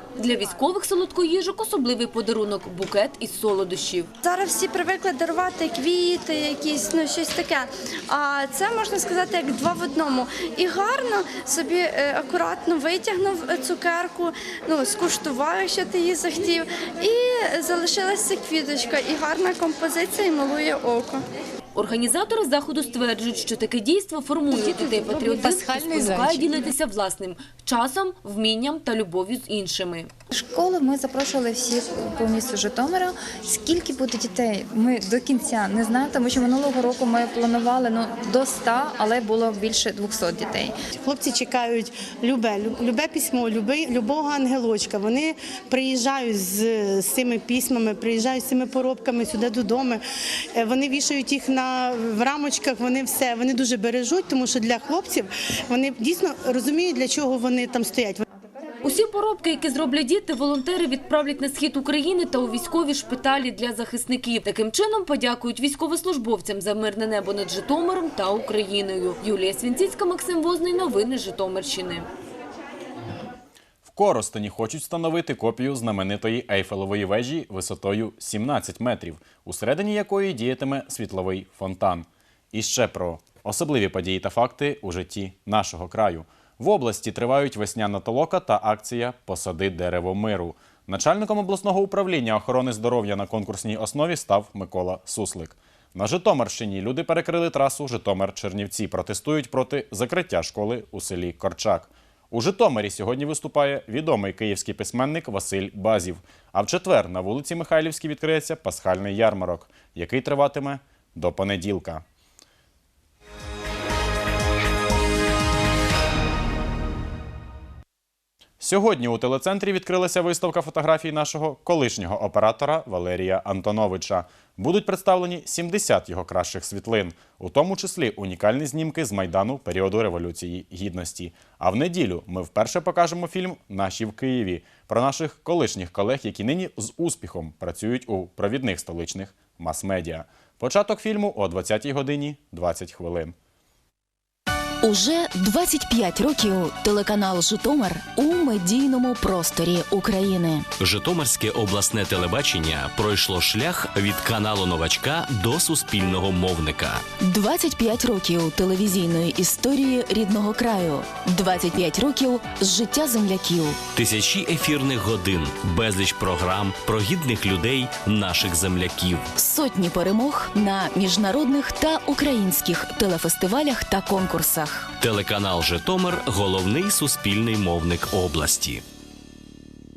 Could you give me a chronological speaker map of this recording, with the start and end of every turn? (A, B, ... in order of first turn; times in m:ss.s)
0:00.2-0:04.1 A
0:04.2-0:21.2 B
0:21.8-0:30.1 A
0:30.3-0:40.7 C
0:41.0-0:50.0 D
0:50.6-0:58.2 D
0:58.8-1:12.1 A
1:13.8-1:52.0 E
1:58.6-2:23.3 E
2:24.8-2:30.7 F
2:30.8-2:37.1 G
2:37.1-2:43.8 F
2:44.0-2:49.2 G
2:49.3-2:54.9 F
2:55.1-2:58.8 G